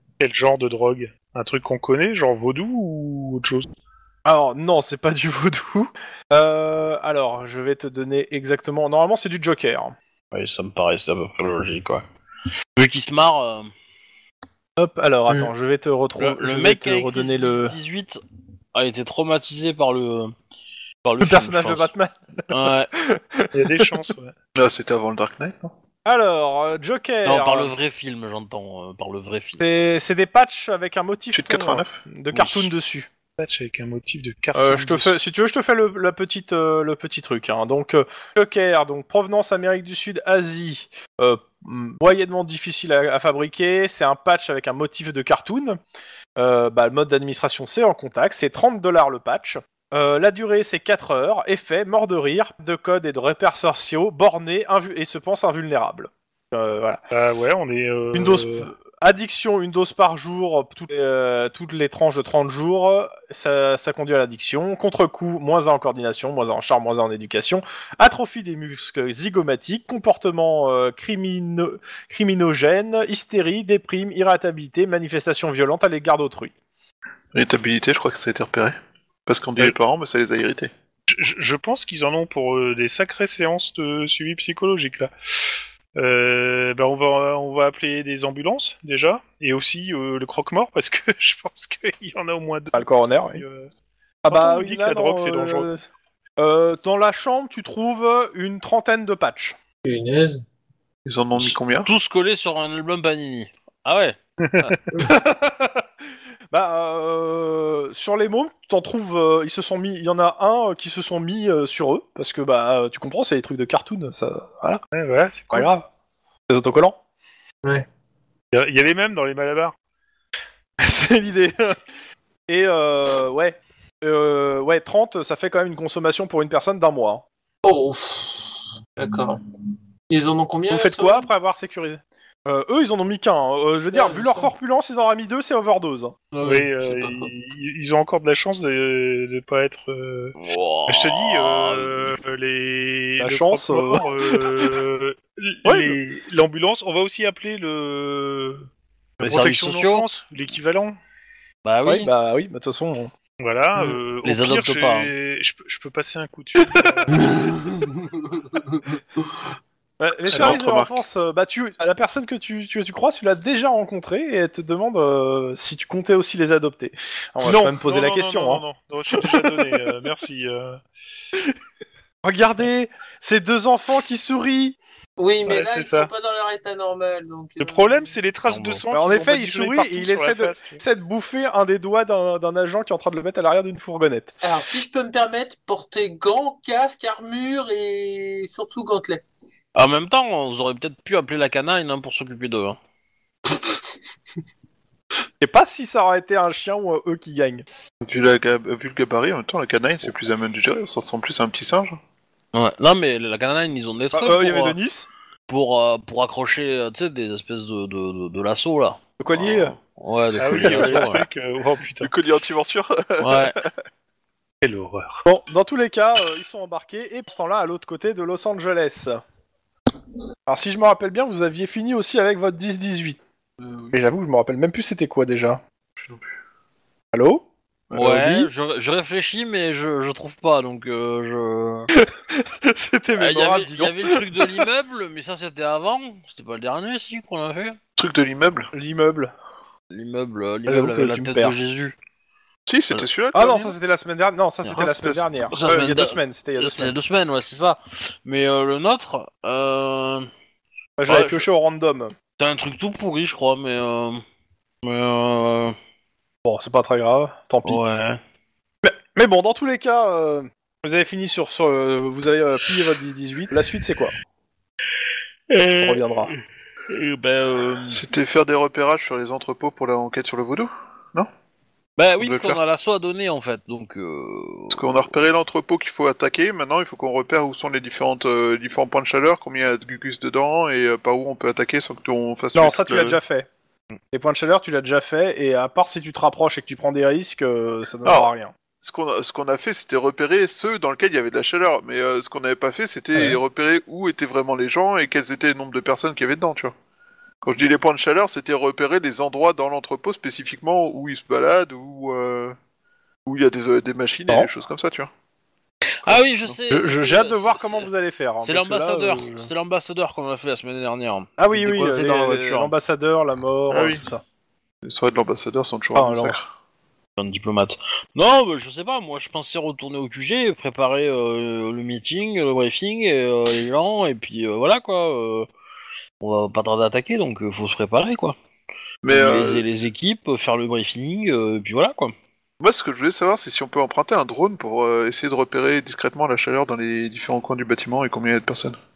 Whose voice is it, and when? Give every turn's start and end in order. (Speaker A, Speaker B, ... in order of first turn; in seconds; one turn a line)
Speaker A: 0.2-3.7
Speaker B: 4.2-10.0
Speaker C: 10.3-12.0
Speaker C: 12.8-13.7
Speaker B: 14.8-17.8
Speaker C: 16.2-18.2
Speaker C: 18.7-20.3
Speaker C: 21.0-21.9
Speaker B: 21.2-24.1
Speaker C: 22.5-22.9
Speaker A: 23.5-24.3
Speaker D: 24.6-25.7
Speaker B: 26.1-27.7
Speaker C: 27.2-29.6
Speaker B: 29.6-33.1
Speaker D: 31.3-32.0
Speaker C: 32.3-32.7
Speaker A: 33.4-35.1
Speaker B: 34.5-45.8
Speaker B: 46.4-57.0
Speaker A: 57.1-58.7
Speaker B: 58.1-76.5
Speaker D: 77.3-80.7
Speaker A: 81.1-93.7
Speaker B: 92.7-93.4
Speaker B: 94.2-95.9
Speaker A: 94.3-95.7
Speaker B: 96.4-99.6
Speaker E: 99.8-100.5
Speaker D: 101.0-101.9
Speaker C: 101.3-104.8
Speaker A: 104.4-104.8
Speaker B: 105.0-105.8
Speaker B: 106.5-114.8
Speaker A: 114.9-115.7
Speaker B: 115.5-115.9
Speaker B: 116.5-117.0
Speaker A: 118.5-119.8
Speaker B: 120.8-121.8
Speaker B: 122.5-127.2
Speaker E: 127.6-129.4
Speaker E: 130.1-131.3
Speaker B: 130.7-136.1
Speaker E: 133.9-134.5
Speaker E: 136.3-137.3
Speaker A: 136.4-148.7
Speaker C: 140.4-142.2
Speaker B: 143.2-144.8
Speaker B: 145.7-146.0
Speaker C: 149.2-150.1
Speaker A: 149.2-151.0
Speaker C: 151.7-152.1
Speaker B: 151.8-153.1
Speaker A: 153.4-157.3
Speaker C: 154.2-155.1
Speaker B: 156.6-157.1
Speaker E: 157.1-159.0
Speaker B: 160.0-169.7
Speaker D: 160.3-161.0
Speaker A: 167.4-170.8
Speaker B: 172.2-174.8
Speaker E: 175.2-178.1
Speaker A: 175.4-176.1
Speaker A: 177.6-180.8
Speaker C: 178.5-178.8
Speaker B: 178.9-184.3
Speaker E: 184.4-189.2
Speaker C: 189.8-192.8
Speaker B: 195.4-197.6
Speaker D: 198.0-202.0
Speaker C: 202.5-204.8
Speaker B: 204.1-205.1
Speaker C: 205.5-211.3
Speaker B: 209.2-209.8
Speaker A: 210.4-212.1
Speaker D: 210.6-210.8
Speaker B: 210.7-211.0
Speaker D: 212.0-213.7
Speaker C: 213.2-213.6
Speaker A: 214.6-215.2
Speaker B: 215.2-219.2
Speaker B: 220.5-223.2
Speaker D: 223.6-224.0
Speaker B: 223.9-225.6
Speaker D: 226.0-226.3
Speaker B: 227.1-228.5
Speaker C: 227.9-231.9
Speaker B: 231.9-234.7
Speaker C: 233.2-237.8
Speaker D: 238.0-238.7
Speaker B: 238.7-239.3
Speaker C: 239.9-242.0
Speaker B: 240.7-241.6
Speaker D: 242.7-243.8
Speaker B: 243.3-246.9
Speaker D: 244.7-245.2
Speaker C: 245.5-250.3
Speaker B: 251.0-252.1
Speaker C: 251.1-251.5
Speaker C: 252.4-254.2
Speaker C: 254.8-255.8
Speaker B: 256.4-257.8
Speaker C: 257.6-258.2
Speaker B: 258.8-264.1
Speaker C: 265.5-268.0
Speaker B: 265.8-266.3
Speaker D: 267.9-271.3
Speaker C: 272.0-275.1
Speaker D: 272.2-272.6
Speaker D: 274.7-283.2
Speaker B: 282.6-283.5
Speaker B: 284.1-288.5
Speaker D: 288.8-296.7
Speaker D: 297.4-302.6
Speaker D: 303.3-305.1
Speaker C: 306.0-307.9
Speaker D: 306.1-306.6
Speaker B: 306.7-309.5
Speaker C: 308.4-312.7
Speaker B: 311.4-314.2
Speaker D: 313.7-314.0
Speaker D: 314.8-316.5
Speaker B: 315.9-316.4
Speaker C: 317.2-325.5
Speaker C: 326.2-328.4
Speaker D: 329.0-329.6
Speaker C: 329.1-332.1
Speaker D: 332.6-338.8